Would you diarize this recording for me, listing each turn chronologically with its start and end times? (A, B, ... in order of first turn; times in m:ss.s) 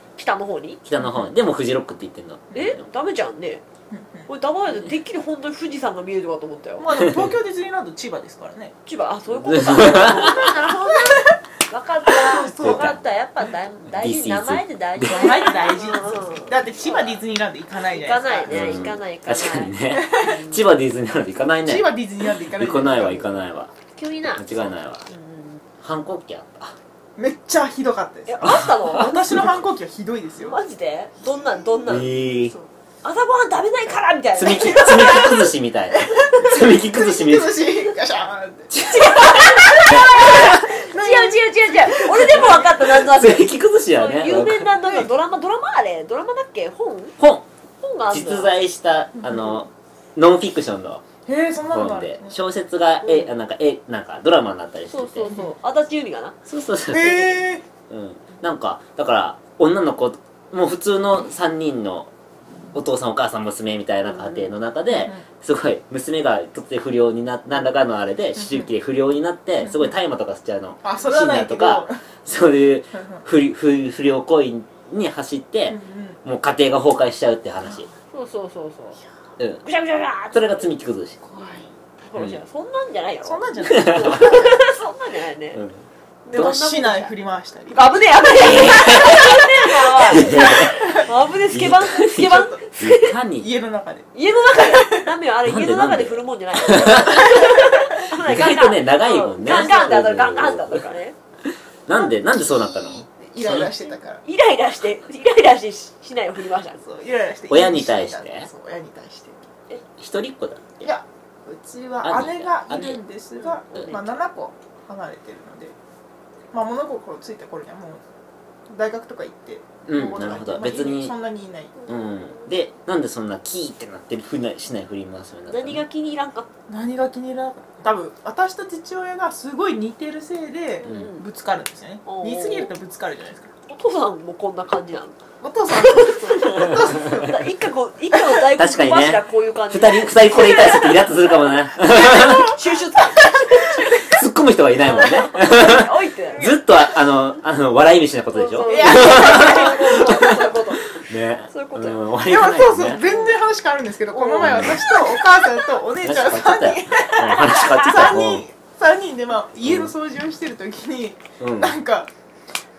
0:00.2-0:00.8 A
0:00.8-0:02.8 B
0:02.5-0:03.6 A
0:03.9-0:04.3 C
0:04.3-0:06.9 A
0:06.8-0:08.7 C
0:08.8-0:17.2 A
0:09.4-0:10.4 B
0:12.1-0:13.0 C
0:12.6-0:13.0 B
0:13.9-0:15.3 B
0:15.0-0:18.9 C
0:17.9-0:20.6 A
0:18.5-0:21.9 B
0:20.0-0:20.3 C
0:21.6-0:23.4 C
0:22.4-0:23.7 B
0:23.9-0:24.4 A
0:24.3-0:25.1 B
0:25.1-0:25.6 A
0:25.8-0:26.8 B
0:27.2-0:30.6 C
0:28.3-0:29.4 A
0:28.4-0:28.8 B
0:30.4-0:32.1 A
0:31.3-0:32.7 C
0:31.9-0:32.5 B
0:33.0-0:35.5 A
0:34.4-0:37.6 B
0:36.1-0:42.7 C
0:38.8-0:39.2 B
0:38.8-0:47.1 A
0:39.9-0:40.4 B
0:42.3-0:44.7 B
0:44.8-0:45.1 C
0:47.2-0:47.5 B
0:47.8-0:48.5 A
0:48.1-0:51.0 B
0:49.2-0:49.6 C
0:51.2-0:52.4 C
0:51.7-0:55.3 B
0:53.0-0:53.3 A
0:54.9-0:56.4 A
0:56.4-1:02.1 B
0:56.9-0:57.6 C
1:02.7-1:17.9 B
1:04.1-1:04.5 A
1:10.8-1:12.0 C
1:13.0-1:13.2 C
1:15.7-1:16.2 C
1:18.1-1:19.0 A
1:19.4-1:19.6 B
1:19.6-1:20.7 A
1:20.3-1:21.2 B
1:21.2-1:21.7 C
1:22.0-1:25.6 A
1:23.2-1:24.6 C
1:23.7-1:24.5 B
1:25.5-1:25.8 B
1:26.2-1:27.1 A
1:26.3-1:27.9 C
1:27.7-1:33.1 A
1:28.3-1:30.9 B
1:31.5-1:33.5 B
1:32.2-1:32.6 C
1:33.4-1:35.1 C
1:34.1-1:41.2 A
1:35.4-1:37.4 B
1:38.1-1:40.8 B
1:41.9-1:43.7 B
1:41.9-1:44.2 C
1:44.2-1:46.8 A
1:46.8-1:49.4 C
1:47.5-1:48.5 B
1:50.0-1:50.9 B
1:50.8-1:55.7 C
1:52.0-1:53.0 B
1:53.7-1:54.1 A
1:56.5-1:58.0 C
1:58.7-2:01.7 C
1:59.8-2:01.1 B
2:01.9-2:05.8 B
2:01.9-2:02.4 A
2:05.5-2:06.5 A
2:06.7-2:13.5 C
2:10.8-2:11.2 A
2:12.0-2:12.7 A
2:13.7-2:15.2 A
2:15.4-2:17.5 C
2:15.7-2:21.2 A
2:18.6-2:22.5 B
2:21.8-2:24.2 A
2:22.0-2:23.6 C
2:24.0-2:33.0 B
2:24.8-2:26.5 A
2:28.3-2:32.0 A
2:28.6-2:30.5 C
2:32.2-2:42.1 C
2:33.1-2:33.3 A
2:34.1-2:35.0 A
2:34.4-2:34.8 B
2:36.0-2:38.4 B
2:37.4-2:37.9 A
2:39.6-2:39.9 B
2:41.4-2:41.8 B